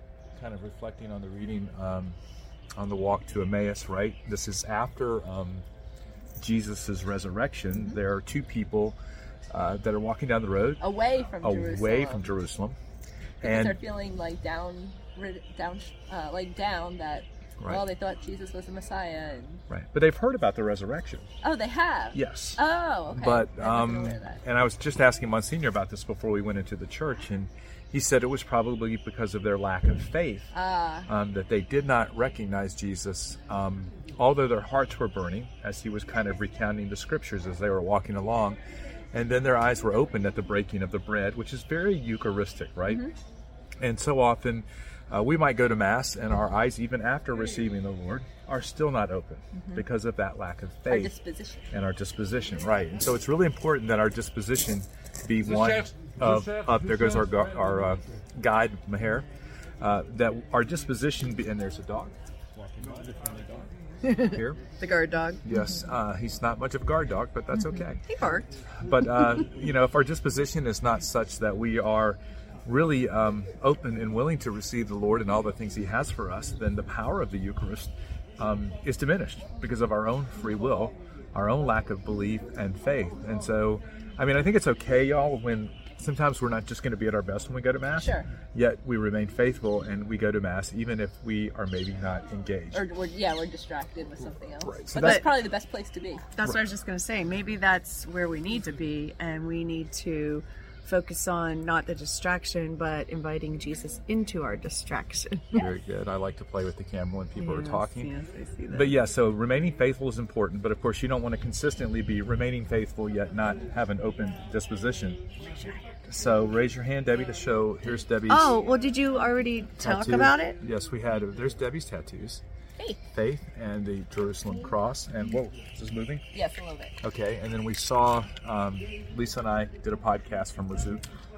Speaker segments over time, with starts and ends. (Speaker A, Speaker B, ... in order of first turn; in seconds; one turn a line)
Speaker A: 0.3-2.2
Speaker A: 2.8-5.6
Speaker A: 6.4-9.0
Speaker A: 9.5-10.8
Speaker B: 10.8-12.3
Speaker A: 11.4-12.8
Speaker A: 13.4-13.8
Speaker B: 13.4-19.6
Speaker A: 17.6-17.9
Speaker A: 19.7-21.3
Speaker B: 21.4-24.4
Speaker A: 22.1-22.6
Speaker A: 23.1-30.5
Speaker B: 30.5-31.1
Speaker A: 31.1-38.6
Speaker A: 39.1-43.1
Speaker A: 43.8-51.1
Speaker B: 49.6-49.8
Speaker B: 50.9-51.7
Speaker A: 51.7-59.3
Speaker A: 59.8-64.6
Speaker C: 64.0-65.4
Speaker A: 65.4-68.0
Speaker C: 68.0-68.6
Speaker A: 68.8-92.8
Speaker B: 88.0-88.3
Speaker B: 92.7-96.2
Speaker A: 94.6-95.3
Speaker C: 95.0-95.4
Speaker C: 96.3-105.7
Speaker A: 105.5-108.1
Speaker C: 107.4-109.0
Speaker A: 108.7-115.2
Speaker A: 116.0-118.5
Speaker C: 118.3-120.6
Speaker A: 119.8-122.4
Speaker A: 123.1-126.2
Speaker B: 126.3-126.9
Speaker A: 127.0-131.0